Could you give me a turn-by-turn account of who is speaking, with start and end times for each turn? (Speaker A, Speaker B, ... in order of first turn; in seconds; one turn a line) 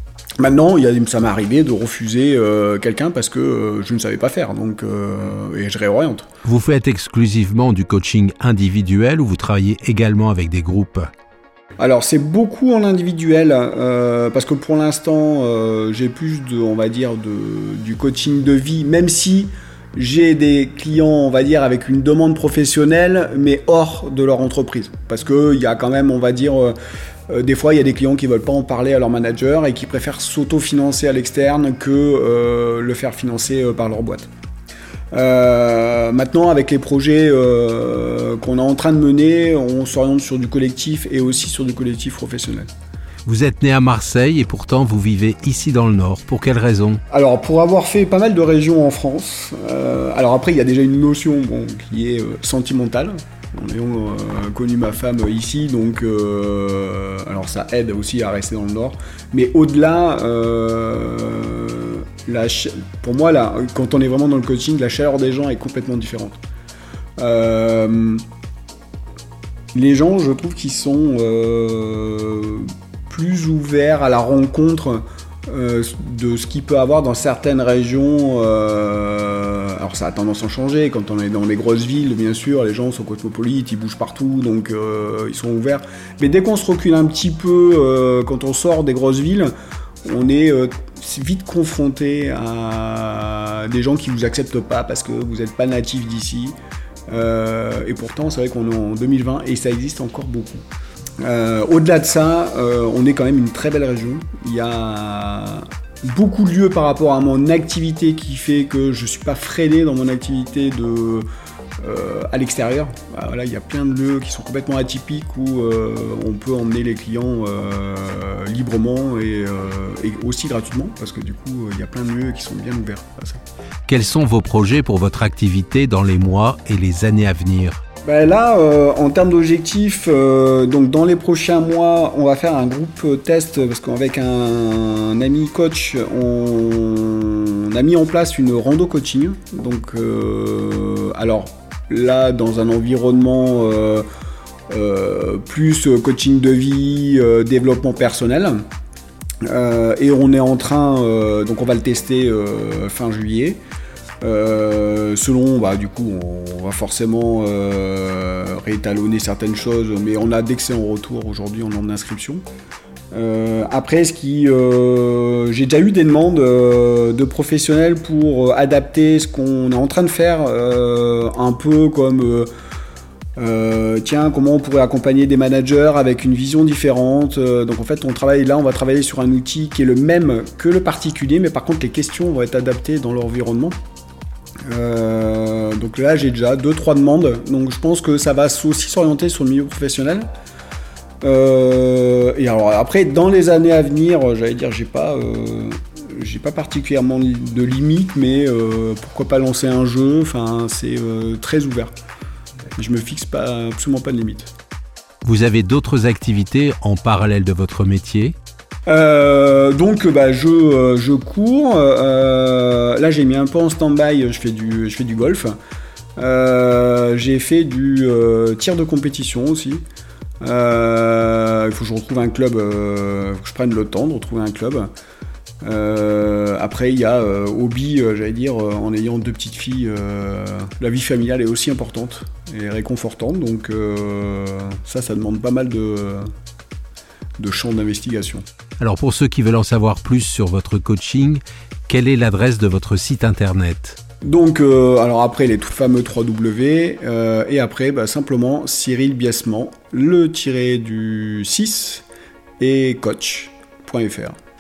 Speaker A: 0.4-6.3
Speaker B: 6.4-11.1
Speaker A: 11.8-26.8
Speaker A: 27.3-34.3
Speaker A: 35.1-42.7
Speaker B: 43.3-47.0
Speaker A: 47.1-66.4
Speaker A: 67.2-68.2
Speaker A: 69.7-89.5
Speaker A: 90.0-96.6
Speaker A: 97.1-100.6
Speaker A: 101.2-111.2
Speaker A: 111.8-123.4
Speaker B: 123.9-127.8
Speaker A: 128.0-144.1
Speaker A: 144.7-148.6
Speaker A: 149.4-153.6
Speaker A: 154.2-162.4
Speaker A: 163.1-172.5
Speaker A: 173.4-183.8
Speaker A: 184.7-190.3
Speaker A: 191.2-201.9
Speaker A: 202.8-204.5
Speaker B: 205.2-208.3
Speaker A: 208.9-215.6
Speaker A: 216.2-219.8
Speaker A: 220.4-224.9
Speaker A: 225.6-236.3
Speaker A: 237.4-238.4
Speaker B: 238.8-244.0
Speaker A: 244.2-252.1
Speaker A: 252.6-254.3